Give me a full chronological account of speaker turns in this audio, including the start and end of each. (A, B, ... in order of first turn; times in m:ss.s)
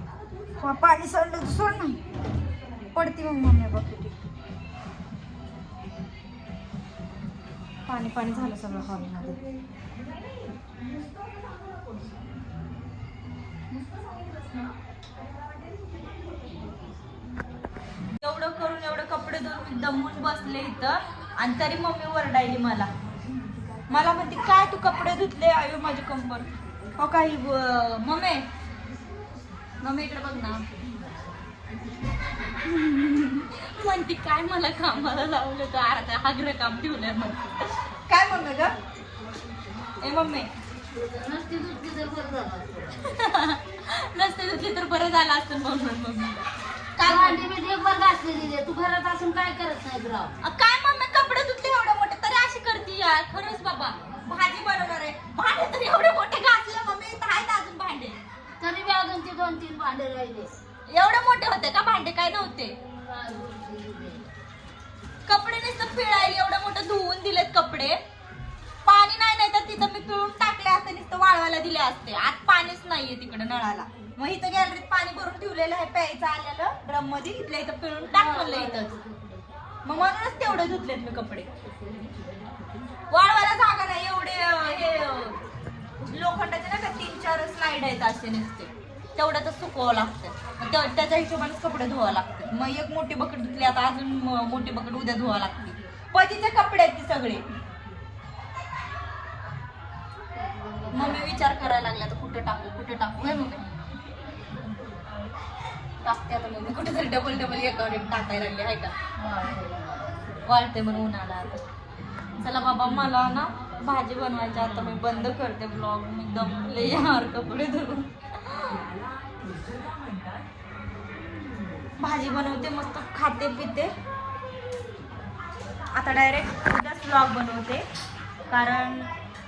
0:00.6-0:02.0 A
0:03.0-0:04.2 A
0:07.9-0:09.4 A
0:18.2-0:22.9 A
0:23.9-0:28.5 A
0:29.8-0:30.7 A
0:32.5-0:38.7 A
0:40.0-0:40.5 A
0:41.0-0:43.0 B
0:43.0-0:46.4 A
0:47.0-0:47.4 A
0:47.0-0:50.4 B
0:50.4-0:58.2 A
0:58.6-1:00.5 B
1:00.9-1:02.8 A
1:03.0-1:04.2 B
1:05.3-1:08.0 A
1:08.9-1:19.0 A
1:18.1-1:18.9 B
1:19.8-1:21.5 A
1:23.1-1:25.4 A
1:26.1-1:37.4 A
1:40.4-1:41.6 B
1:40.9-1:43.6 A
1:46.0-1:49.0 A
1:49.2-1:50.1 B
1:50.5-1:51.6 A
1:52.4-1:58.8 A
2:02.0-2:03.9 A
2:06.0-2:07.8 A
2:08.5-2:09.1 A